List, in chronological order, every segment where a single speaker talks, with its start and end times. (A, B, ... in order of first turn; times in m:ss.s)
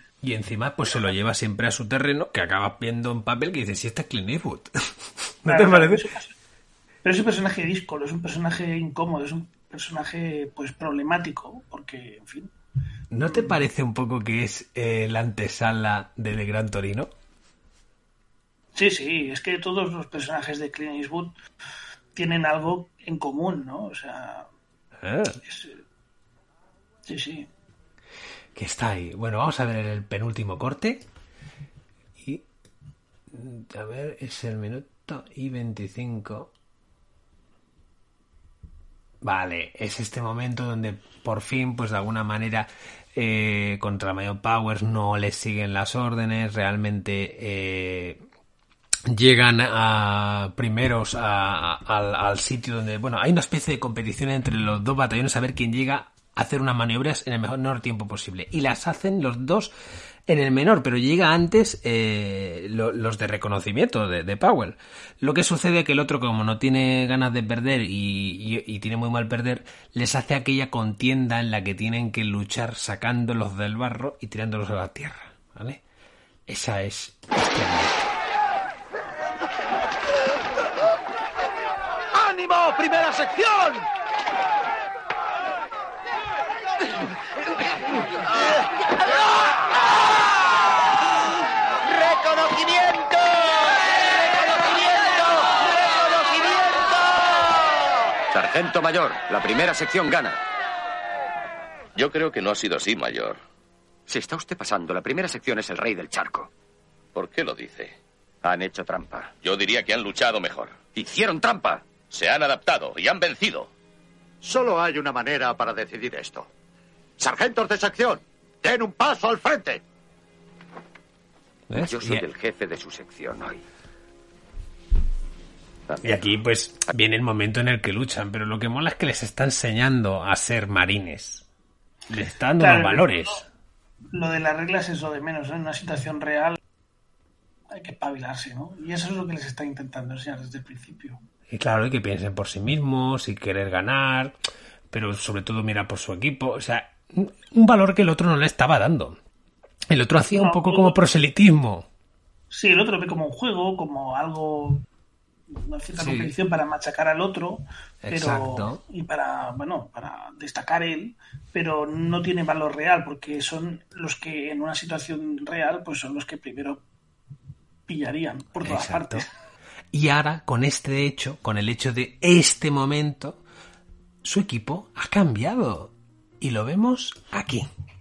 0:00.2-0:06.0 A
0:05.5-0:06.3 B
0:07.0-0:12.5 B
0:13.1-0:17.1 A
0:13.3-0:13.6 B
0:18.8-0:21.4 B
0:22.2-0:24.5 B
0:25.0-0:25.4 A
0:25.4-0:25.8 B
0:27.1-0:27.5 B
0:28.6-0:31.0 A
0:32.2-0:32.4 A
0:33.3-0:36.5 A
0:39.2-0:48.2 A
0:49.1-0:59.7 A
1:00.3-1:15.8 A
1:16.5-1:18.2 A
1:32.0-1:33.6 C
1:34.3-1:36.8 C
1:38.3-1:40.4 D
1:42.0-1:43.4 E
1:44.1-1:46.5 D
1:47.2-1:48.0 E
1:48.4-1:49.3 D
1:49.4-1:50.8 E
1:51.0-1:51.8 D
1:52.1-1:53.7 E
1:54.4-1:56.5 F
1:57.2-1:59.8 F
2:01.7-2:02.2 A
2:01.8-2:03.6 D
2:06.0-2:11.5 A
2:12.1-2:13.4 A
2:12.6-2:13.4 B
2:14.1-2:16.6 B
2:17.7-2:21.2 B
2:21.5-2:24.4 A
2:24.9-2:29.2 A
2:29.9-2:31.9 A
2:30.3-2:31.0 B
2:32.5-2:34.8 B
2:35.5-2:46.8 B
2:35.9-2:36.3 A
2:38.0-2:38.8 A
2:47.9-2:49.3 B
2:48.6-2:49.3 A
2:49.9-2:53.4 A
2:54.2-2:57.7 A